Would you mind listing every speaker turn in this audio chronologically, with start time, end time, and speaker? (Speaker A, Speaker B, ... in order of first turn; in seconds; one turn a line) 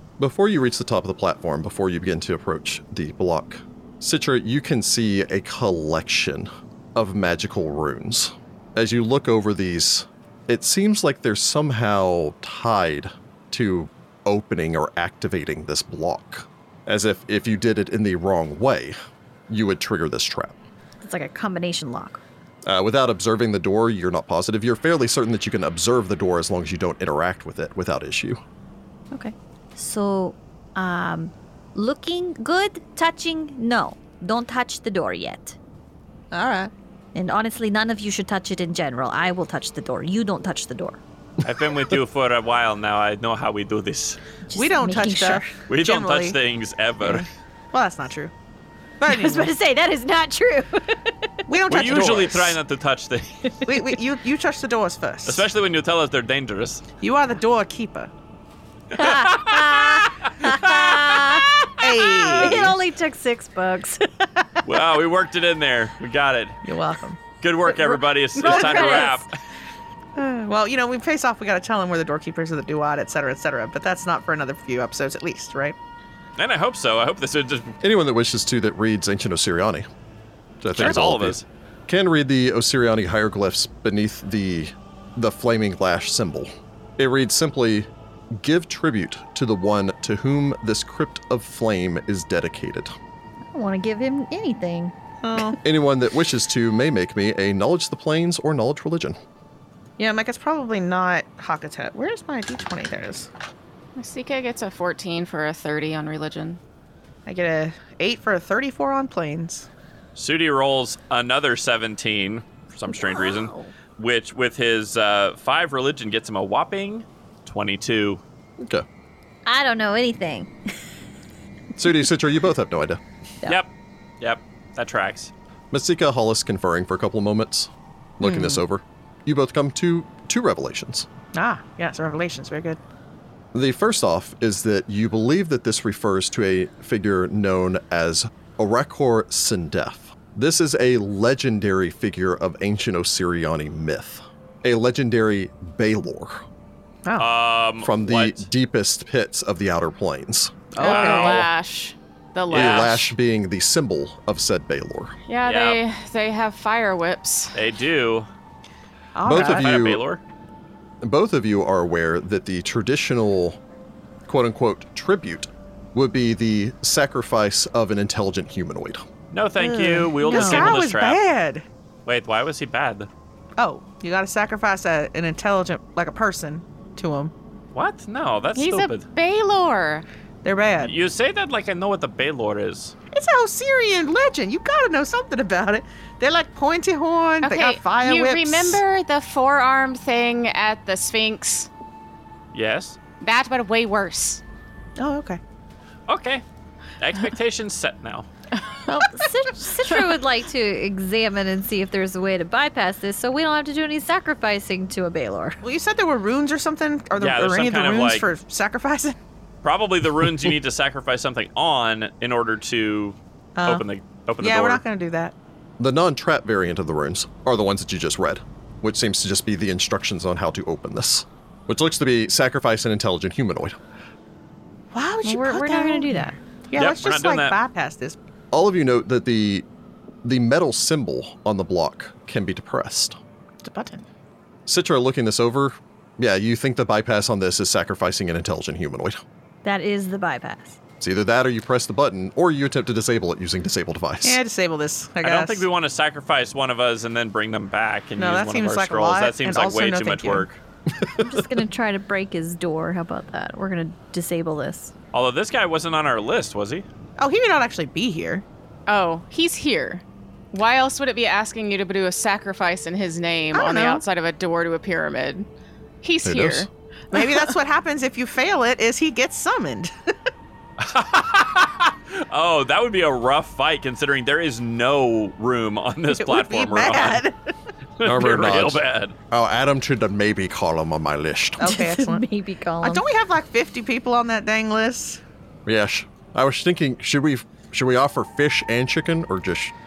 Speaker A: 0.2-18.9
Speaker A: 19.5-20.5
Speaker B: 21.0-22.2
Speaker A: 22.6-28.4
Speaker B: 29.1-35.6
Speaker C: 36.3-36.7
Speaker B: 37.1-41.0
Speaker D: 41.4-44.2
Speaker B: 44.5-45.5
Speaker C: 44.5-46.4
Speaker D: 45.7-47.3
Speaker C: 47.0-48.3
Speaker C: 49.0-49.5
Speaker B: 49.0-51.1
Speaker C: 51.5-52.6
Speaker D: 51.7-53.3
Speaker B: 53.5-53.8
Speaker C: 53.6-55.4
Speaker D: 55.2-56.8
Speaker C: 57.0-58.1
Speaker D: 58.9-62.7
Speaker B: 58.9-61.5
Speaker C: 61.8-62.7
Speaker B: 62.2-64.6
Speaker D: 64.6-66.6
Speaker C: 66.6-67.2
Speaker D: 67.4-69.3
Speaker B: 67.8-69.3
Speaker C: 68.4-69.1
Speaker C: 70.2-75.8
Speaker D: 76.4-77.8
Speaker A: 77.8-79.8
Speaker A: 80.6-92.9
Speaker D: 80.7-81.4
Speaker B: 93.5-94.9
Speaker C: 95.2-95.6
Speaker A: 95.6-99.2
Speaker C: 100.0-103.3
Speaker E: 104.0-106.6
Speaker C: 107.2-109.7
Speaker D: 110.2-118.2
Speaker B: 112.9-113.7
Speaker A: 118.6-118.8
Speaker B: 119.5-120.5
Speaker A: 121.8-123.0
Speaker D: 124.2-125.3
Speaker A: 125.7-131.1
Speaker C: 131.3-132.8
Speaker A: 133.5-146.4
Speaker D: 147.2-148.4
Speaker A: 147.8-150.7
Speaker C: 150.7-151.4
Speaker D: 150.8-151.5
Speaker E: 150.8-153.1
Speaker D: 152.5-153.0
Speaker A: 152.5-155.1
Speaker E: 155.3-157.6
Speaker D: 155.4-155.8
Speaker D: 157.5-158.3
Speaker C: 159.1-159.7
Speaker A: 159.2-160.0
Speaker D: 159.2-160.2
Speaker A: 161.0-163.6
Speaker A: 164.3-169.0
Speaker D: 169.3-171.2
Speaker C: 169.6-171.6
Speaker B: 170.3-170.7
Speaker D: 172.1-173.1
Speaker C: 173.6-177.3
Speaker D: 177.7-179.1
Speaker E: 178.5-180.0
Speaker C: 180.4-180.9
Speaker D: 180.8-182.9
Speaker C: 183.1-188.8
Speaker E: 187.4-191.7
Speaker D: 192.5-193.0
Speaker E: 193.2-194.4
Speaker C: 195.0-195.4
Speaker D: 196.1-196.4
Speaker D: 197.0-198.3
Speaker B: 198.9-205.6
Speaker C: 205.6-209.2
Speaker D: 207.2-208.2
Speaker D: 209.6-214.8
Speaker C: 213.6-213.8
Speaker C: 214.4-215.3
Speaker A: 215.8-223.8
Speaker C: 224.9-228.2
Speaker B: 225.2-226.3
Speaker D: 226.7-227.6
Speaker A: 228.5-229.6
Speaker A: 230.2-233.2
Speaker C: 233.6-234.0
Speaker A: 234.7-239.2
Speaker B: 239.6-240.8
Speaker A: 241.0-244.4
Speaker C: 244.2-245.7
Speaker D: 245.2-250.6
Speaker C: 248.2-250.5
Speaker A: 251.0-251.4
Speaker B: 251.2-254.9
Speaker D: 255.1-256.8
Speaker C: 257.2-258.4
Speaker E: 258.9-265.4
Speaker C: 263.5-264.0
Speaker E: 266.0-267.5
Speaker A: 266.2-266.7
Speaker C: 267.1-269.9
Speaker D: 270.8-277.2
Speaker C: 276.2-277.4
Speaker D: 278.0-279.1
Speaker A: 278.0-281.8
Speaker C: 281.6-282.2
Speaker B: 281.6-283.0
Speaker C: 282.8-285.2
Speaker A: 285.6-289.7